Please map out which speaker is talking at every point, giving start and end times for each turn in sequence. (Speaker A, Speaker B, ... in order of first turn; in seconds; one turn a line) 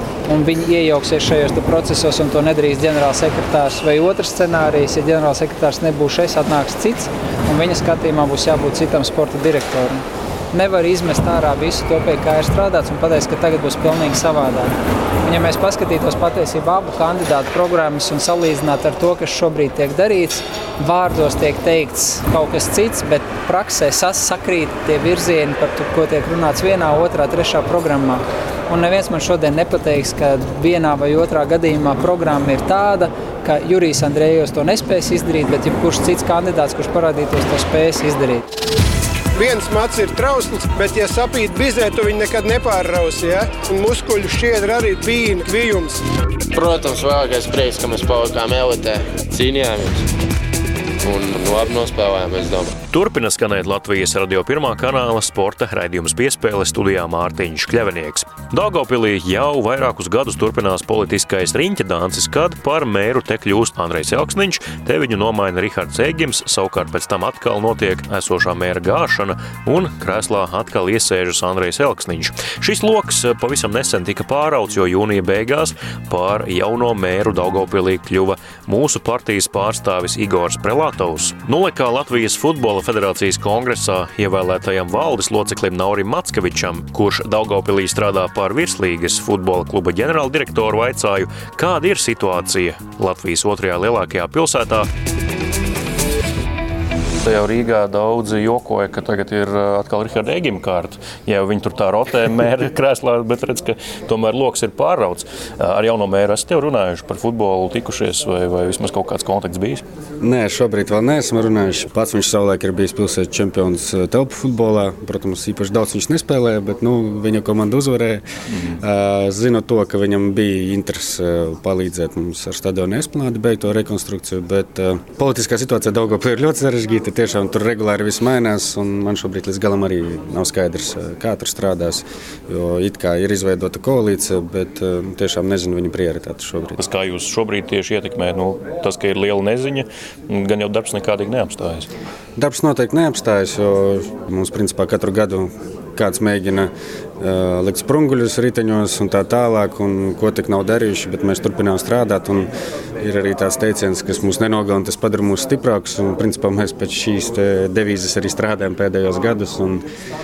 Speaker A: 0.3-38.5
Speaker B: 39.3-46.0
Speaker C: 46.5-50.0
Speaker C: 51.0-52.7
Speaker D: 52.9-94.9
Speaker D: 97.2-109.8
Speaker E: 110.2-118.2
Speaker E: 118.8-136.8
Speaker D: 136.8-141.9
Speaker E: 142.3-152.5
Speaker E: 153.0-159.8